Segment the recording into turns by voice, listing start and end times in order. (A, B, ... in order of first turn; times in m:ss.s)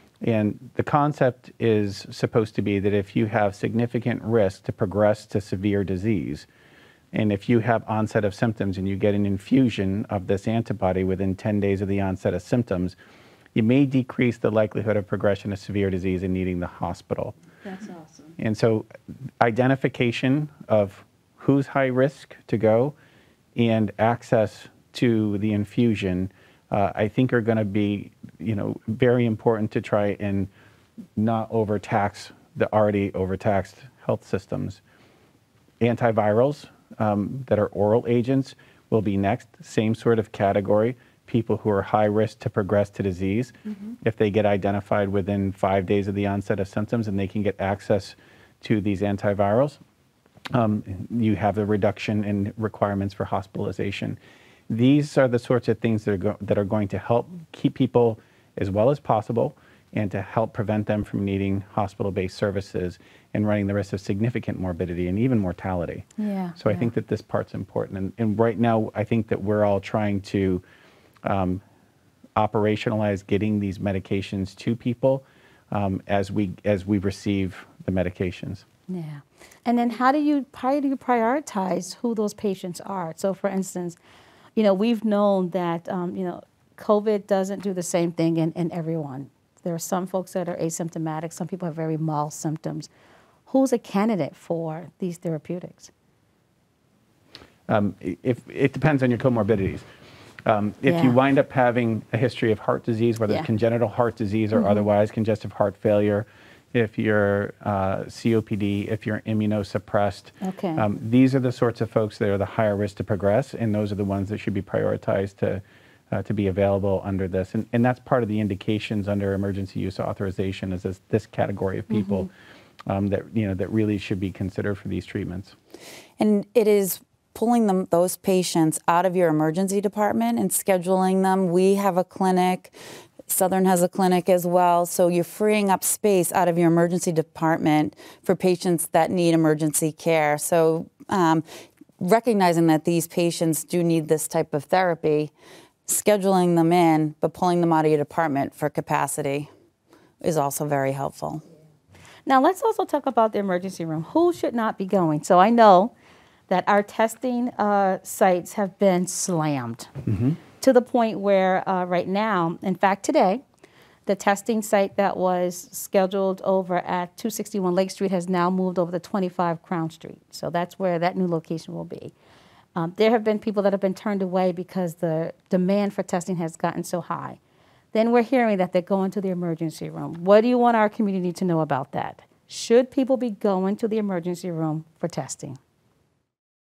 0:00.2-0:06.5 A
0:07.1-0:12.9 A
0:13.5-0:17.3 A
0:17.6-0:18.3 B
0:18.4-0:18.9 A
0:19.4-0:22.9 A
0:23.6-0:30.5 A
0:31.2-0:34.8 A
0:35.8-0:49.8 A
0:50.5-0:54.2 A
0:54.7-1:06.1 A
1:06.2-1:06.9 B
1:06.6-1:10.6 A
1:11.2-1:11.6 A
1:12.4-1:18.6 A
1:18.9-1:24.0 B
1:24.6-1:32.9 B
1:33.5-1:35.9 B
1:37.7-1:39.8 A
1:40.4-2:02.3 A
1:40.8-1:41.2 B
1:44.5-1:44.8 B
1:50.4-1:50.8 B
2:01.9-2:02.3 B
2:02.9-2:05.5 A
2:06.2-2:12.7 C
2:13.3-2:21.4 C
2:22.0-2:25.3 C
2:25.8-2:29.5 C
2:30.2-2:31.4 C
2:32.2-2:35.9 B
2:36.5-2:39.9 B
2:40.1-2:40.4 A
2:40.6-2:43.4 B
2:44.1-2:52.1 B
2:52.8-2:57.4 B
2:57.9-3:05.6 B